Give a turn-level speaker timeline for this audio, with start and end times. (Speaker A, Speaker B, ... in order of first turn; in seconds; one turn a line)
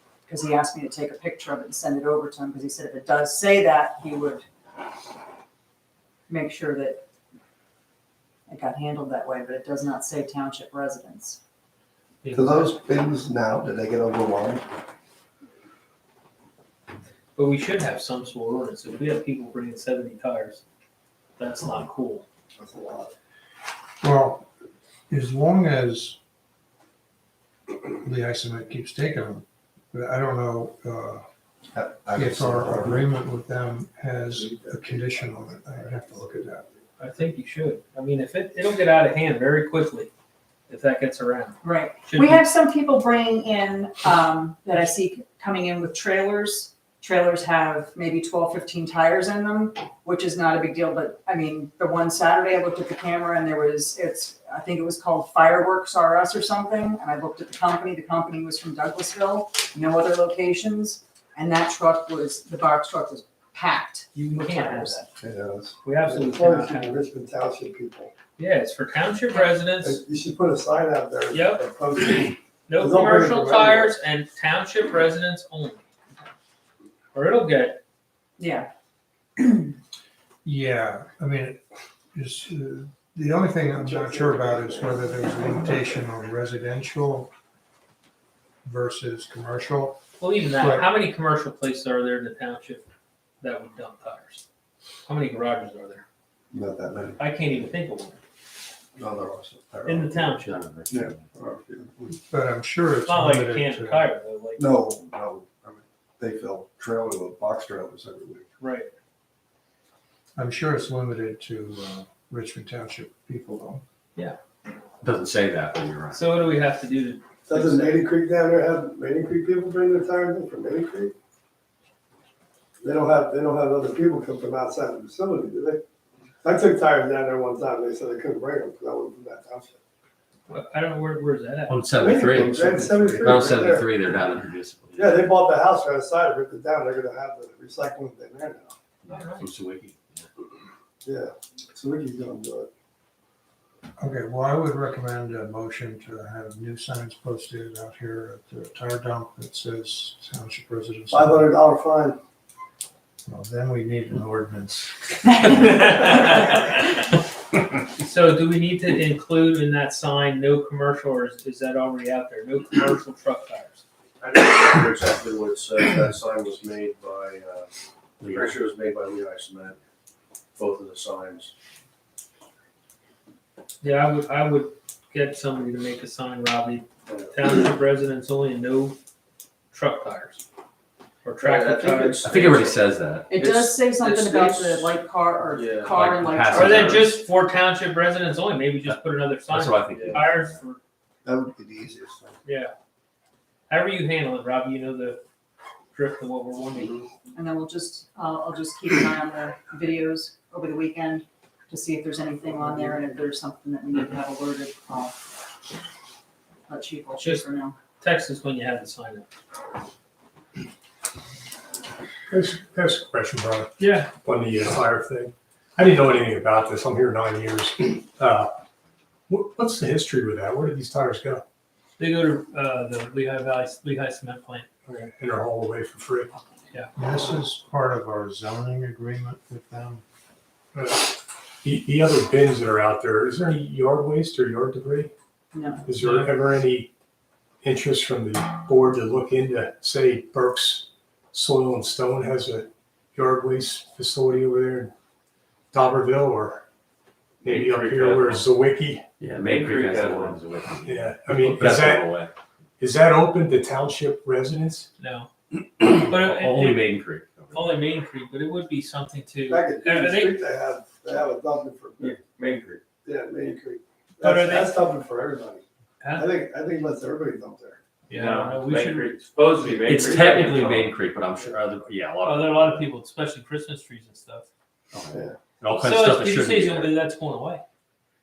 Speaker A: 0.3-4.4
Speaker A: 6.3-7.0
Speaker A: 8.5-11.4
Speaker B: 12.2-12.7
Speaker C: 12.3-14.6
Speaker D: 13.6-13.9
Speaker B: 17.4-20.6
Speaker B: 21.4-22.2
Speaker C: 22.6-23.1
Speaker E: 24.0-24.5
Speaker E: 25.1-26.2
Speaker E: 27.9-31.2
Speaker D: 31.7-33.1
Speaker E: 32.1-36.6
Speaker D: 34.3-35.4
Speaker C: 35.8-36.2
Speaker B: 37.0-40.1
Speaker B: 40.7-42.4
Speaker A: 41.6-65.0
Speaker B: 64.1-65.1
Speaker D: 65.2-65.8
Speaker B: 65.8-67.0
Speaker C: 65.9-68.1
Speaker B: 68.4-70.0
Speaker C: 69.8-73.9
Speaker B: 71.3-71.6
Speaker B: 72.7-75.8
Speaker B: 77.1-77.8
Speaker A: 78.4-78.7
Speaker A: 79.4-79.7
Speaker E: 80.4-81.6
Speaker E: 82.1-87.3
Speaker C: 83.8-85.3
Speaker E: 88.6-90.9
Speaker B: 90.2-92.8
Speaker B: 93.4-94.4
Speaker B: 95.0-96.0
Speaker D: 96.5-97.2
Speaker B: 97.2-98.2
Speaker D: 99.0-102.2
Speaker B: 99.8-100.6
Speaker F: 100.4-101.3
Speaker E: 102.3-104.1
Speaker B: 103.0-104.8
Speaker D: 104.6-108.4
Speaker B: 108.6-108.9
Speaker E: 110.3-113.8
Speaker F: 115.0-116.2
Speaker B: 116.1-118.0
Speaker C: 117.5-121.1
Speaker C: 122.8-125.8
Speaker C: 126.4-129.8
Speaker B: 130.5-131.8
Speaker F: 131.7-135.4
Speaker C: 132.0-133.9
Speaker D: 132.7-133.2
Speaker C: 134.9-138.7
Speaker F: 139.0-140.3
Speaker B: 139.1-139.5
Speaker C: 141.0-142.7
Speaker E: 144.0-151.5
Speaker C: 151.1-152.2
Speaker E: 153.3-156.0
Speaker B: 158.0-163.8
Speaker G: 164.2-167.7
Speaker F: 168.2-168.6
Speaker G: 168.3-169.8
Speaker G: 170.6-171.5
Speaker B: 173.8-179.0
Speaker G: 177.1-177.4
Speaker B: 179.7-180.4
Speaker B: 181.2-182.2
Speaker G: 181.4-182.7
Speaker F: 182.2-183.4
Speaker A: 183.3-187.1
Speaker G: 183.4-185.9
Speaker F: 185.9-187.2
Speaker B: 186.5-190.8
Speaker F: 189.5-190.6
Speaker D: 191.2-192.3
Speaker B: 192.4-192.7
Speaker B: 193.7-195.2
Speaker B: 195.9-197.1
Speaker A: 197.3-205.2
Speaker A: 206.7-207.8
Speaker B: 207.2-207.5
Speaker B: 208.0-209.3
Speaker H: 212.3-213.7
Speaker B: 213.8-214.1
Speaker H: 214.2-218.5
Speaker H: 219.3-221.4
Speaker B: 222.0-224.7
Speaker H: 224.9-226.3
Speaker E: 226.9-230.0
Speaker H: 230.7-235.1
Speaker A: 235.5-235.8
Speaker H: 235.8-236.9
Speaker B: 236.0-236.3
Speaker H: 237.6-244.9
Speaker H: 245.7-246.6
Speaker H: 247.4-249.0
Speaker F: 247.4-248.5
Speaker F: 249.2-252.3
Speaker H: 250.8-252.1
Speaker H: 252.8-254.9
Speaker B: 255.0-257.0
Speaker F: 256.2-257.8
Speaker B: 257.5-260.4
Speaker C: 259.5-262.2
Speaker F: 262.0-262.8
Speaker C: 263.0-265.6
Speaker B: 264.2-264.7
Speaker B: 266.0-266.3
Speaker C: 266.1-267.8
Speaker B: 268.1-270.7
Speaker F: 268.1-272.9
Speaker B: 272.2-274.5
Speaker F: 274.9-277.0
Speaker B: 275.8-277.6